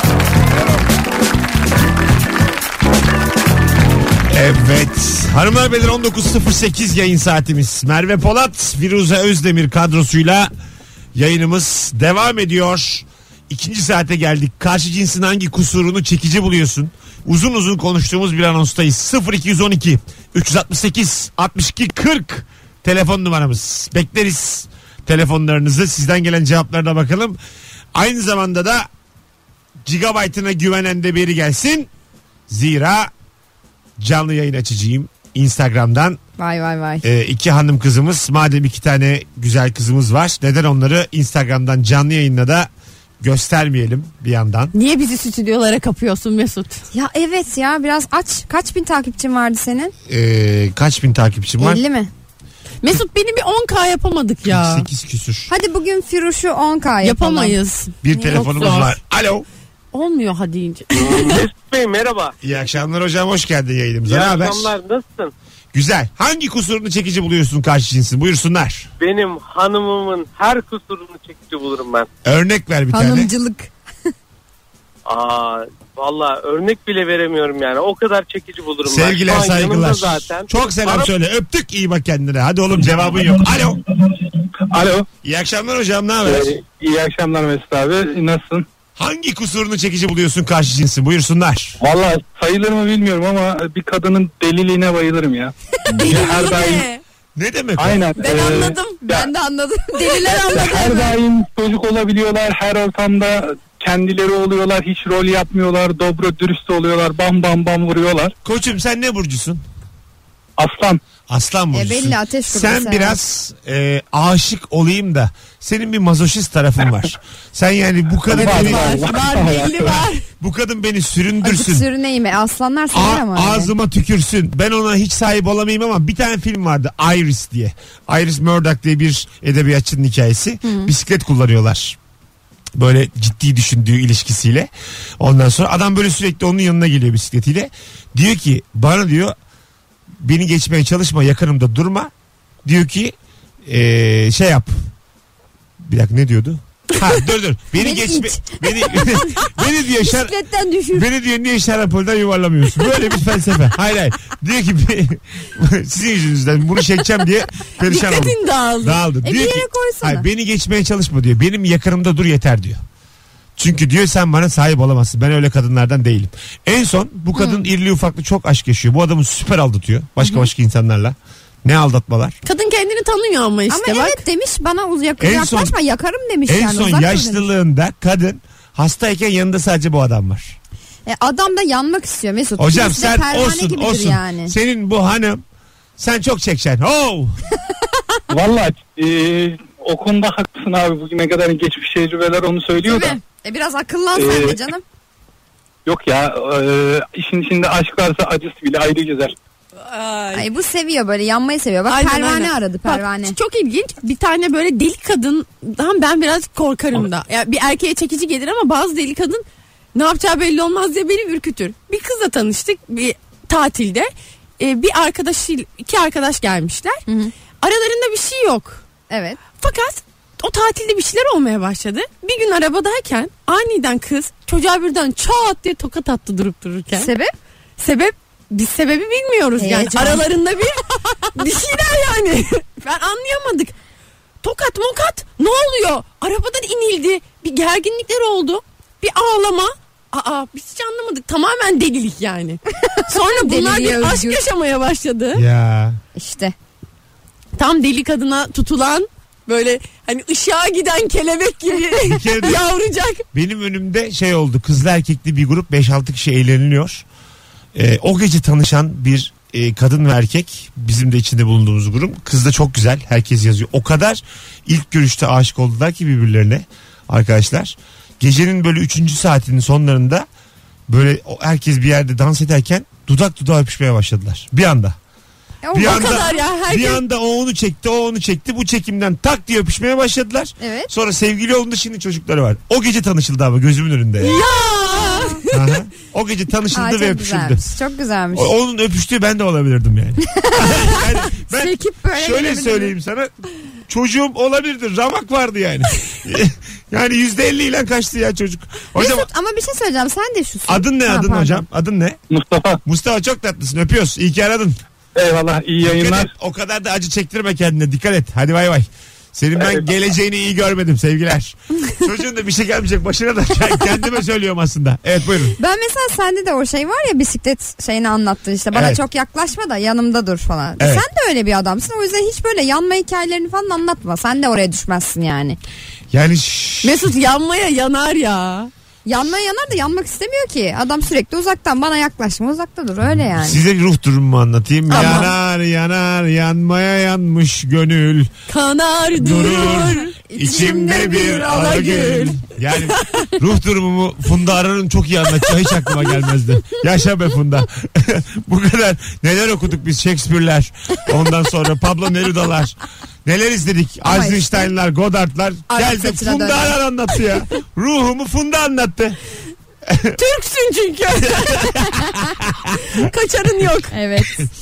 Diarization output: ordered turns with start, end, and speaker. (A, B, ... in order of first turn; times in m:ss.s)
0:04.3-0:10.5 A
0:11.2-0:27.4 A
0:27.9-0:28.9 A
0:29.8-0:31.9 A
0:32.5-0:33.1 A
0:34.0-0:36.2 A
0:36.4-0:37.0 B
0:37.0-0:42.7 A
0:43.2-0:44.7 A
0:44.7-0:46.8 C
0:46.9-0:49.9 B
0:50.1-0:51.8 A
0:51.6-0:52.1 B
0:52.8-0:54.9 C
0:54.5-0:55.5 A
0:55.5-0:57.6 B
0:57.0-0:59.0 C
0:58.0-0:59.5 A
0:59.9-1:01.4 C
1:01.2-1:02.4 D
1:02.4-1:04.7 A
1:04.1-1:05.3 D
1:05.7-1:08.9 A
1:09.0-1:12.1 D
1:12.2-1:13.3 A
1:12.9-1:13.7 B
1:15.1-1:21.1 D
1:18.8-1:23.8 A
1:22.9-1:25.1 E
1:25.2-1:26.5 A
1:26.2-1:28.6 E
1:29.0-1:31.8 A
1:31.8-1:36.9 E
1:36.0-1:37.0 C
1:37.4-1:38.6 A
1:37.8-1:39.3 E
1:38.2-1:39.0 C
1:39.0-1:41.1 B
1:40.0-1:41.1 C
1:40.5-1:48.3 E
1:48.4-1:49.6 A
1:50.6-1:51.0 E
1:51.3-1:59.2 A
1:51.7-1:53.2 B
1:58.3-2:00.1 E
1:58.3-2:00.2 C
2:00.4-2:01.9 A
2:01.4-2:03.7 B
2:02.9-2:12.0 A
2:10.6-2:10.9 B
2:12.8-2:19.3 A
2:20.2-2:22.1 A
2:22.6-2:24.8 A
2:25.8-2:30.4 A
2:27.8-2:31.1 B
2:30.9-2:42.8 A
2:37.8-2:39.0 C
2:39.2-2:40.3 B
2:43.6-2:52.4 A
2:47.4-2:47.6 B
2:50.2-2:50.5 B
2:52.4-2:54.2 C
2:53.7-2:57.5 B
2:55.2-2:55.7 A
2:56.5-3:00.6 A
3:01.1-3:04.6 B
3:02.6-3:05.4 A
3:06.0-3:07.4 A
3:08.3-3:13.2 E
3:12.8-3:14.8 B
3:14.2-3:14.6 E
3:15.9-3:19.4 E
3:19.9-3:20.4 C
3:20.3-3:23.4 B
3:21.9-3:29.4 C
3:30.0-3:37.0 C
3:37.1-3:37.3 B
3:37.6-3:38.8 C
3:39.1-3:39.4 B
3:39.6-3:47.1 C
3:47.0-3:47.3 B
3:47.8-3:53.7 C
3:49.6-3:50.2 B
3:54.4-4:05.4 C
4:02.8-4:04.4 B
4:05.3-4:06.0 A
4:06.2-4:06.5 B
4:07.6-4:13.2 C
4:12.0-4:12.6 A
4:13.3-4:17.1 A
4:17.8-4:30.3 A
4:30.9-4:35.0 A
4:35.6-4:36.4 B
4:35.7-4:44.4 A
4:35.8-4:37.0 C
4:40.6-4:40.9 B
4:44.2-4:45.5 C
4:44.6-4:45.4 B
4:45.5-4:47.6 A
4:46.7-4:48.5 B
4:48.3-4:53.3 A
4:50.3-4:52.9 B
4:53.9-4:59.3 A
4:59.0-5:01.7 B
5:00.7-5:02.2 A
5:02.3-5:02.8 E
5:02.8-5:04.8 A
5:05.2-5:06.3 E
5:05.8-5:15.6 A
5:15.6-5:25.6 B
5:18.7-5:19.0 A
5:20.8-5:21.1 A
5:26.1-5:27.1 A
5:26.8-5:28.7 C
5:29.0-5:33.6 B
5:33.3-5:38.3 A
5:34.9-5:35.3 C
5:34.9-5:35.3 B
5:38.5-5:42.4 C
5:39.1-5:59.2 A
5:39.6-5:41.4 B
5:43.0-5:43.3 C
5:45.8-5:46.3 C
5:54.0-5:54.7 B
5:55.7-5:56.8 B
5:59.8-6:00.2 A
6:00.2-6:01.9 C
6:01.3-6:02.9 A
6:02.9-6:04.0 C
6:03.9-6:04.5 B